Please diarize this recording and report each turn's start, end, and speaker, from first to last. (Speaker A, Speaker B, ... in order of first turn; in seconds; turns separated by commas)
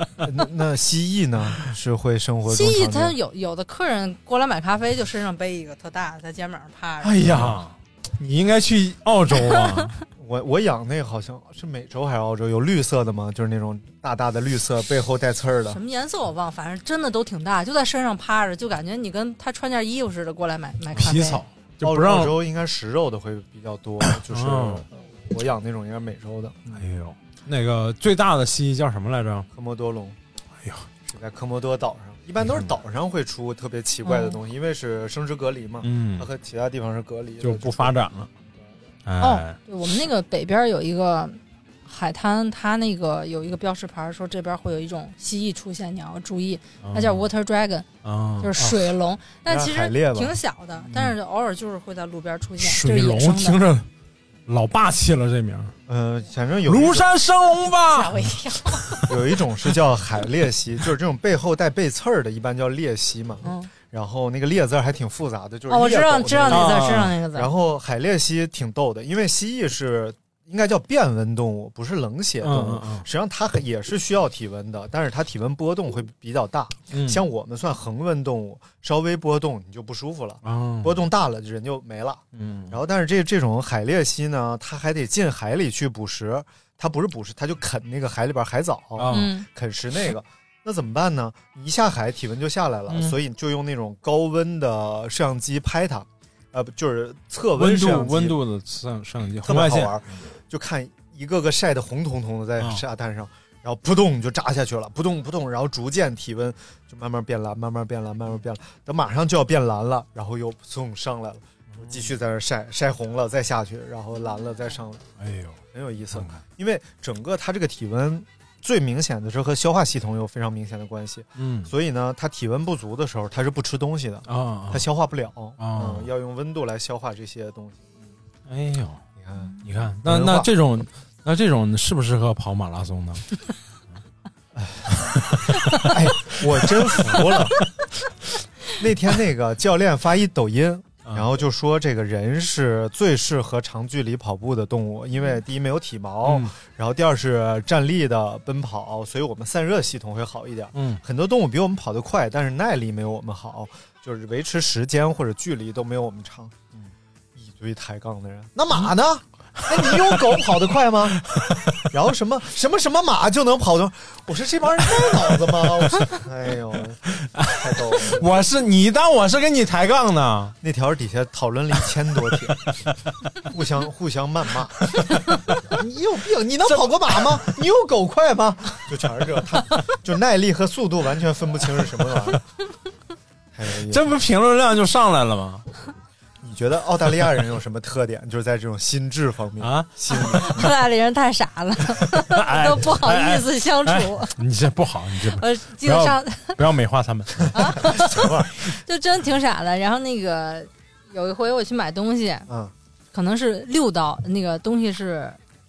Speaker A: 0.2-3.1, Speaker B: 2.5-7.3, Speaker C: 7.0-9.9, Speaker A: 10.2-15.8, Speaker B: 15.7-21.4, Speaker C: 20.9-22.4, Speaker A: 21.8-26.8, Speaker C: 24.1-24.8, Speaker C: 26.7-29.5, Speaker A: 29.5-30.2, Speaker C: 30.6-30.9, Speaker A: 31.1-38.0, Speaker C: 32.4-32.7, Speaker B: 34.0-34.4, Speaker C: 35.8-36.3, Speaker C: 37.4-38.3, Speaker C: 39.0-39.6, Speaker B: 39.2-47.9, Speaker C: 46.8-47.3, Speaker C: 48.0-48.5, Speaker B: 48.4-53.6, Speaker A: 48.6-48.9, Speaker A: 49.4-50.4, Speaker C: 52.6-53.9, Speaker C: 54.5-55.7, Speaker A: 55.9-57.1, Speaker C: 56.7-58.3, Speaker B: 57.8-59.0, Speaker A: 59.0-98.4, Speaker B: 63.4-63.7, Speaker B: 65.7-67.5, Speaker C: 66.5-67.1, Speaker C: 72.4-73.0, Speaker C: 76.9-77.2, Speaker C: 80.4-81.0, Speaker C: 82.3-82.8, Speaker C: 89.0-89.3, Speaker B: 89.1-89.5, Speaker C: 92.9-93.2, Speaker C: 97.5-100.0, Speaker A: 99.4-115.0, Speaker C: 115.2-115.6, Speaker A: 115.7-128.1, Speaker C: 116.1-116.4, Speaker C: 121.4-121.7, Speaker C: 124.3-124.9, Speaker C: 125.6-126.1, Speaker C: 128.5-129.0, Speaker A: 129.2-130.5, Speaker C: 129.6-133.3, Speaker A: 134.5-135.0, Speaker C: 134.9-135.9, Speaker A: 135.8-137.6, Speaker C: 137.0-137.4, Speaker A: 138.8-168.3, Speaker C: 146.2-146.5, Speaker C: 150.7-151.0, Speaker C: 159.6-160.3, Speaker C: 161.3-161.8, Speaker C: 167.1-170.6, Speaker A: 170.6-172.7, Speaker A: 173.4-175.0, Speaker C: 175.0-175.6, Speaker A: 175.6-182.4, Speaker A: 183.5-184.2, Speaker C: 183.9-185.6, Speaker A: 186.4-190.7, Speaker C: 189.6-190.4, Speaker B: 190.1-194.3, Speaker C: 192.1-197.8, Speaker B: 195.3-196.6, Speaker B: 197.5-202.5, Speaker A: 197.8-198.5, Speaker A: 202.5-202.7, Speaker B: 203.1-205.4